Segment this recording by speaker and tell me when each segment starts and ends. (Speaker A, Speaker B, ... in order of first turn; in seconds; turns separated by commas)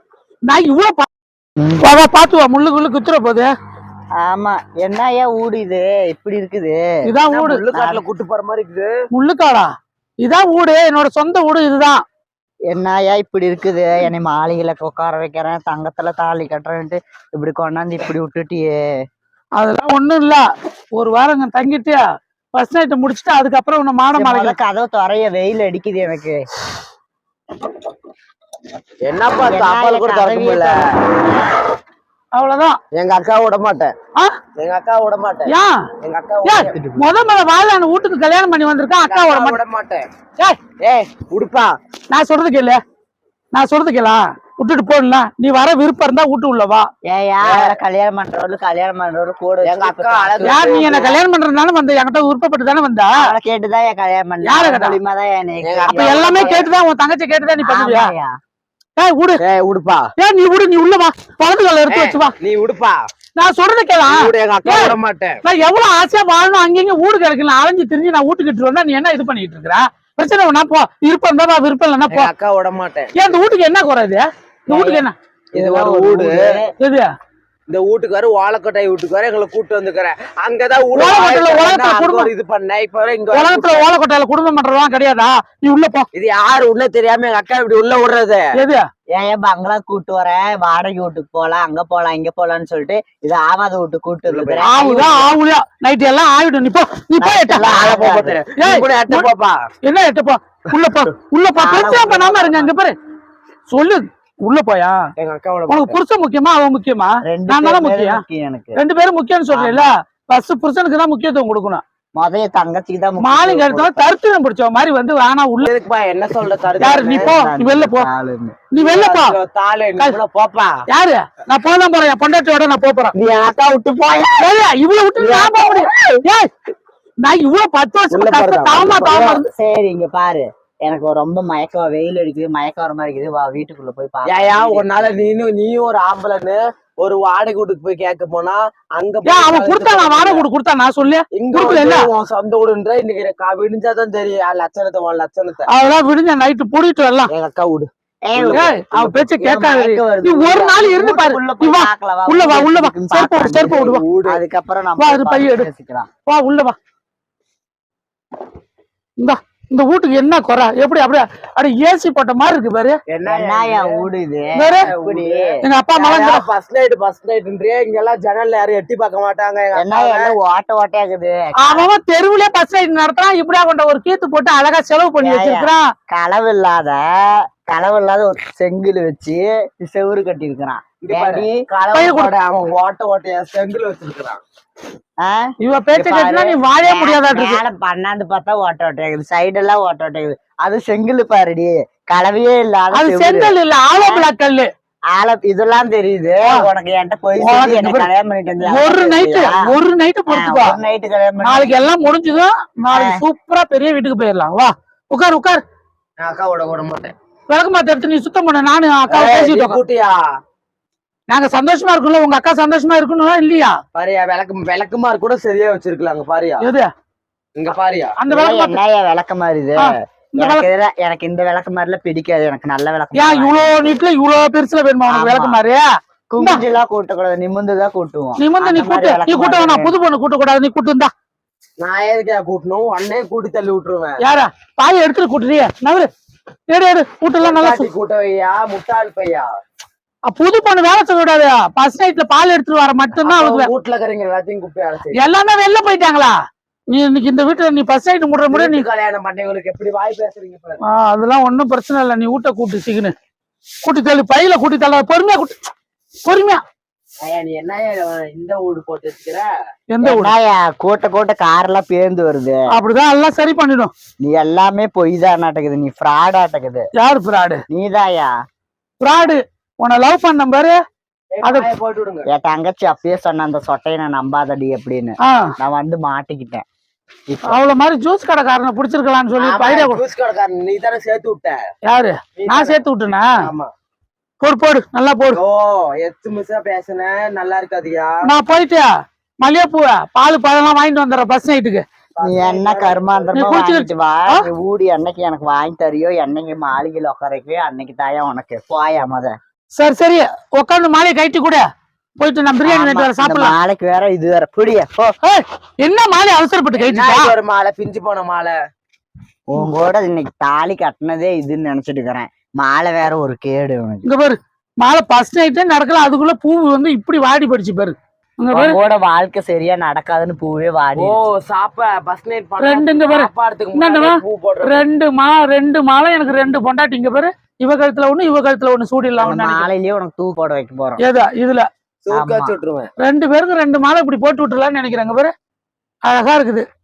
Speaker A: 0.5-1.1, Speaker B: 1.6-1.8, Speaker A: 1.8-3.5, Speaker B: 4.2-6.9, Speaker A: 7.0-7.6, Speaker C: 7.3-8.9, Speaker B: 7.7-8.0, Speaker A: 9.1-9.7, Speaker A: 10.2-12.0, Speaker B: 12.7-18.9, Speaker A: 19.6-20.4, Speaker A: 20.9-22.0, Speaker A: 22.5-24.6, Speaker B: 24.1-26.4, Speaker C: 29.0-30.9, Speaker B: 29.4-31.4, Speaker A: 32.3-32.8, Speaker C: 32.9-33.9, Speaker C: 34.6-35.5, Speaker A: 35.5-35.8, Speaker C: 36.0-36.8, Speaker A: 36.4-39.6, Speaker B: 36.7-37.1, Speaker C: 39.1-40.1, Speaker C: 40.8-41.7, Speaker A: 42.1-42.8, Speaker A: 43.5-46.9, Speaker B: 47.1-51.1, Speaker C: 47.4-47.8, Speaker C: 49.6-51.2, Speaker A: 50.4-53.1, Speaker B: 53.1-56.7, Speaker A: 54.4-55.0, Speaker C: 55.6-56.5, Speaker A: 55.9-58.1, Speaker B: 57.6-58.3, Speaker A: 59.0-59.4, Speaker C: 59.4-60.1, Speaker A: 60.2-62.3, Speaker C: 61.9-63.0, Speaker A: 63.4-72.3, Speaker C: 64.1-65.4, Speaker C: 72.1-73.3, Speaker A: 73.1-75.1, Speaker B: 74.7-76.7, Speaker C: 75.5-76.5, Speaker A: 76.8-77.1, Speaker C: 77.7-83.9, Speaker A: 80.9-82.3, Speaker A: 83.3-86.0, Speaker C: 86.1-88.5, Speaker A: 88.5-88.8, Speaker B: 89.1-95.3, Speaker C: 94.3-95.2, Speaker A: 94.6-97.8, Speaker B: 97.2-98.4, Speaker C: 97.6-99.7, Speaker A: 98.6-99.3, Speaker A: 99.8-102.9, Speaker B: 101.5-102.7, Speaker A: 103.7-105.0, Speaker C: 105.2-106.0, Speaker A: 105.7-108.2, Speaker B: 107.3-108.8, Speaker A: 108.8-111.8, Speaker B: 109.5-109.9, Speaker B: 112.2-114.0, Speaker A: 113.2-115.7, Speaker C: 115.6-117.3, Speaker A: 116.8-118.1, Speaker B: 117.2-118.6, Speaker A: 118.7-119.4, Speaker C: 118.8-120.8, Speaker A: 120.9-123.1, Speaker C: 123.2-124.3, Speaker A: 124.4-126.5, Speaker B: 125.2-125.5, Speaker A: 127.2-129.4, Speaker C: 128.1-129.2, Speaker B: 129.0-135.2, Speaker C: 134.2-140.5, Speaker A: 139.2-142.1, Speaker C: 141.3-145.7, Speaker A: 145.7-147.3, Speaker C: 147.3-149.6, Speaker B: 148.3-148.7, Speaker A: 148.5-154.0, Speaker B: 149.4-156.1, Speaker C: 153.6-154.4, Speaker A: 155.0-155.7, Speaker A: 156.3-156.8, Speaker A: 159.2-163.0, Speaker B: 163.1-165.6, Speaker C: 163.2-164.1, Speaker A: 164.6-164.9, Speaker C: 164.7-170.3, Speaker A: 165.6-166.4, Speaker B: 169.7-171.9, Speaker A: 171.6-175.8, Speaker B: 175.2-181.6, Speaker C: 181.0-184.4, Speaker A: 181.9-182.3, Speaker B: 185.2-194.3, Speaker A: 185.6-187.6, Speaker A: 192.9-194.7, Speaker B: 195.1-199.6, Speaker A: 197.4-198.1, Speaker A: 198.6-200.8, Speaker B: 200.3-201.8, Speaker A: 201.4-205.6, Speaker B: 202.9-203.2, Speaker C: 206.2-207.1, Speaker A: 207.5-209.8, Speaker C: 209.1-210.2, Speaker A: 211.3-213.8, Speaker C: 213.9-216.7, Speaker A: 216.6-216.9, Speaker C: 217.6-218.2, Speaker A: 218.2-218.8, Speaker B: 218.3-223.9, Speaker A: 219.8-220.7, Speaker A: 223.1-225.8, Speaker B: 225.1-225.6, Speaker B: 226.3-230.0, Speaker A: 228.4-231.1, Speaker C: 231.8-234.2, Speaker A: 234.2-236.1, Speaker A: 236.7-237.9, Speaker C: 237.4-239.5, Speaker A: 240.3-243.7, Speaker C: 243.2-245.2, Speaker A: 245.1-246.3, Speaker A: 246.9-248.8, Speaker C: 248.5-250.8, Speaker A: 250.8-253.1, Speaker A: 253.8-255.6, Speaker A: 256.2-256.6, Speaker C: 257.2-259.5, Speaker A: 259.9-260.3, Speaker B: 260.0-262.6, Speaker A: 262.7-263.9, Speaker B: 264.2-266.9, Speaker A: 267.0-267.6, Speaker B: 267.7-268.3, Speaker A: 269.0-270.8, Speaker C: 271.3-272.3, Speaker A: 271.4-271.7, Speaker B: 272.3-276.6, Speaker B: 277.3-277.6, Speaker A: 277.5-280.0, Speaker C: 279.4-281.6, Speaker A: 281.9-283.3, Speaker C: 282.4-282.8, Speaker C: 283.4-283.7, Speaker A: 284.4-285.4, Speaker C: 285.3-288.2, Speaker A: 288.2-288.9, Speaker A: 289.4-291.8, Speaker C: 292.1-293.4, Speaker B: 292.2-299.3, Speaker A: 293.3-294.4, Speaker A: 299.8-301.6, Speaker A: 302.2-303.5, Speaker B: 302.6-305.1, Speaker A: 305.2-307.3, Speaker C: 306.7-308.6, Speaker B: 309.5-314.1, Speaker A: 314.0-318.8, Speaker B: 318.5-321.2, Speaker C: 320.9-324.8, Speaker A: 322.6-329.7, Speaker B: 329.2-331.0, Speaker A: 331.0-331.6, Speaker C: 332.0-332.9, Speaker B: 332.1-332.6, Speaker A: 333.0-335.3, Speaker A: 336.0-336.6